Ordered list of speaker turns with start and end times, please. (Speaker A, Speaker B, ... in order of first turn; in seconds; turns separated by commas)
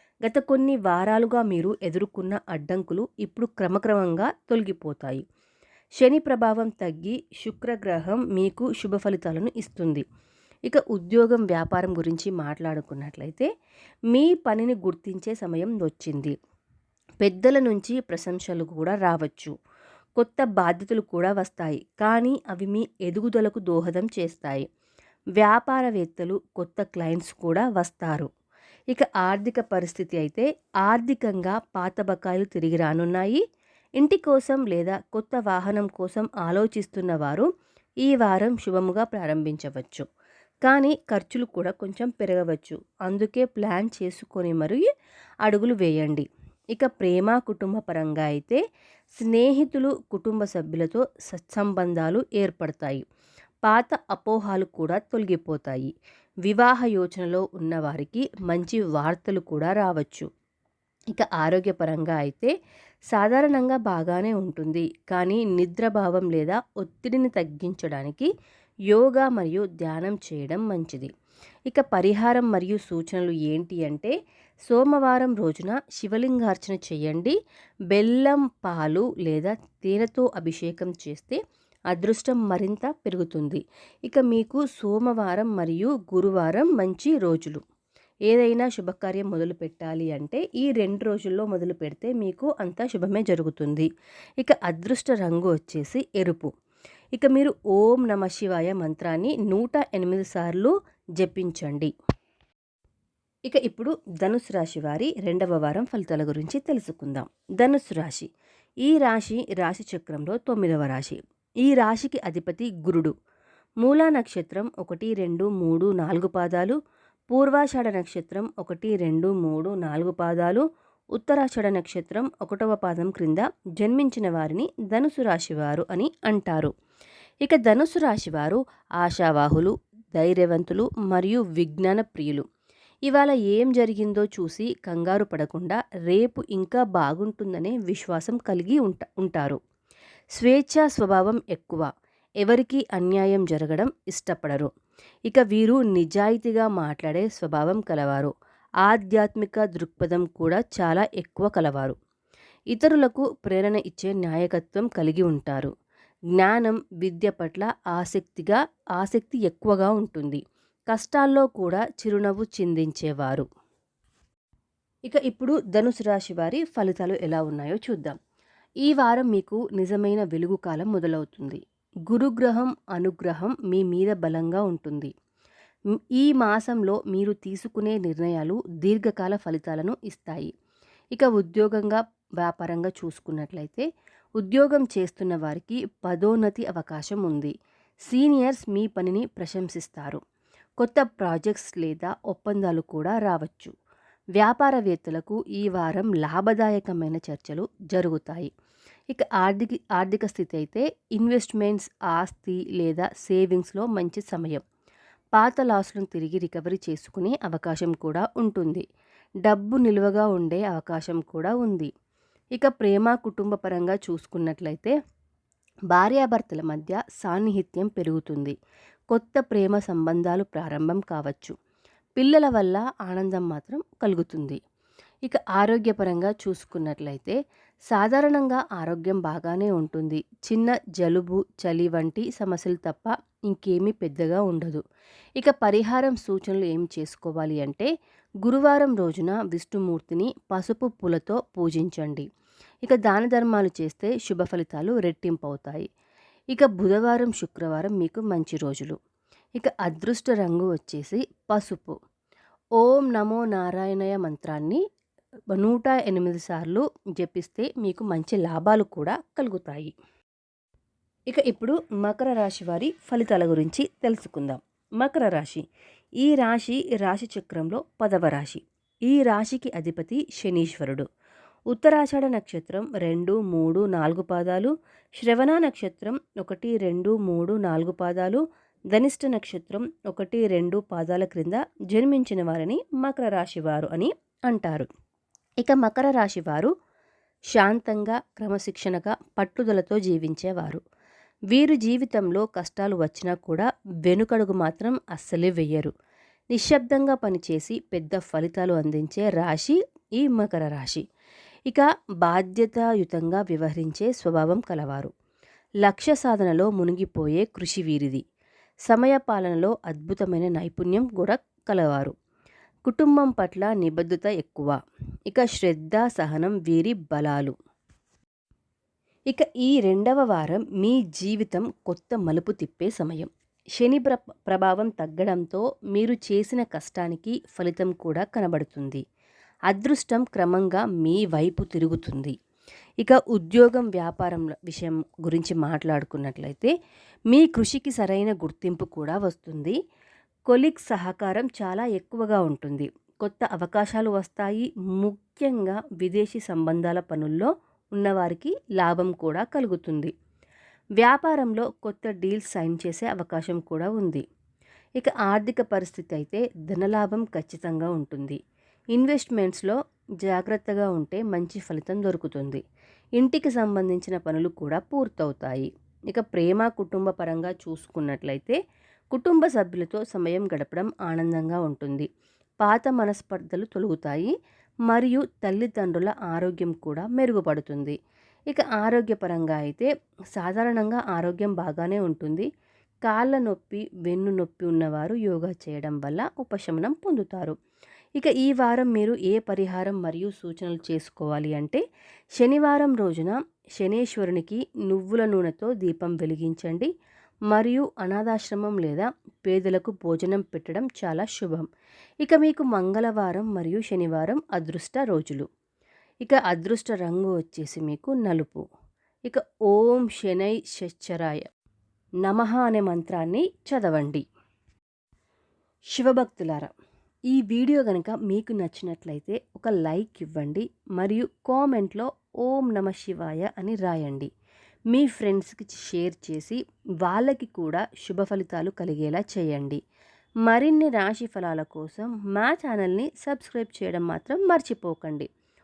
Speaker A: 0.2-5.2, Speaker A: 6.0-10.0, Speaker A: 10.7-13.5, Speaker A: 14.1-16.3, Speaker A: 17.2-19.5, Speaker A: 20.2-24.7, Speaker A: 25.4-28.3, Speaker A: 28.9-33.4, Speaker A: 34.0-37.5, Speaker A: 38.0-40.1, Speaker A: 40.6-44.9, Speaker A: 45.4-48.6, Speaker A: 49.1-53.0, Speaker A: 53.7-55.9, Speaker A: 56.5-60.3, Speaker A: 61.1-62.5, Speaker A: 63.1-68.3, Speaker A: 68.9-71.1, Speaker A: 71.7-74.1, Speaker A: 74.7-77.3, Speaker A: 77.9-81.4, Speaker A: 81.9-87.6, Speaker A: 88.3-93.9, Speaker A: 94.4-96.5, Speaker A: 97.2-101.9, Speaker A: 103.5-108.3, Speaker A: 108.8-113.1, Speaker A: 113.8-116.8, Speaker A: 117.3-126.7, Speaker A: 127.4-132.4, Speaker A: 133.1-139.6, Speaker A: 140.4-141.9, Speaker A: 142.4-144.7, Speaker A: 145.3-148.3, Speaker A: 148.8-151.9, Speaker A: 152.7-155.7, Speaker A: 156.4-163.4, Speaker A: 165.1-168.2, Speaker A: 168.8-175.1, Speaker A: 176.1-180.5, Speaker A: 181.1-183.9, Speaker A: 184.4-187.5, Speaker A: 188.1-190.2, Speaker A: 190.8-193.7, Speaker A: 194.4-198.5, Speaker A: 199.1-204.6, Speaker A: 205.4-208.8, Speaker A: 209.4-211.9, Speaker A: 212.6-214.9, Speaker A: 215.9-218.6, Speaker A: 219.1-221.6, Speaker A: 222.2-224.6, Speaker A: 225.2-227.4, Speaker A: 227.9-234.8, Speaker A: 235.4-237.9, Speaker A: 238.4-242.2, Speaker A: 242.8-245.9, Speaker A: 246.5-248.9, Speaker A: 249.6-251.9, Speaker A: 252.8-254.8, Speaker A: 255.5-259.9, Speaker A: 261.3-265.6, Speaker A: 266.2-271.1, Speaker A: 271.7-284.9, Speaker A: 285.6-286.7, Speaker A: 287.5-290.8, Speaker A: 291.5-295.9, Speaker A: 296.5-301.0, Speaker A: 301.7-305.1, Speaker A: 305.8-308.2, Speaker A: 308.9-312.1, Speaker A: 312.8-314.8, Speaker A: 315.3-317.5, Speaker A: 319.3-329.0, Speaker A: 329.7-332.3, Speaker A: 333.0-336.7, Speaker A: 337.3-339.8, Speaker A: 340.5-350.1, Speaker A: 351.0-354.2, Speaker A: 355.0-358.4, Speaker A: 358.9-362.6, Speaker A: 363.2-368.6, Speaker A: 369.1-372.1, Speaker A: 372.6-374.3, Speaker A: 374.9-377.9, Speaker A: 378.5-382.5, Speaker A: 383.1-387.6, Speaker A: 388.2-391.8, Speaker A: 392.4-396.9, Speaker A: 397.5-401.7, Speaker A: 402.2-405.4, Speaker A: 406.2-408.6, Speaker A: 409.3-411.5, Speaker A: 412.2-414.2, Speaker A: 415.9-416.7, Speaker A: 417.3-424.3, Speaker A: 424.9-429.8, Speaker A: 430.4-435.3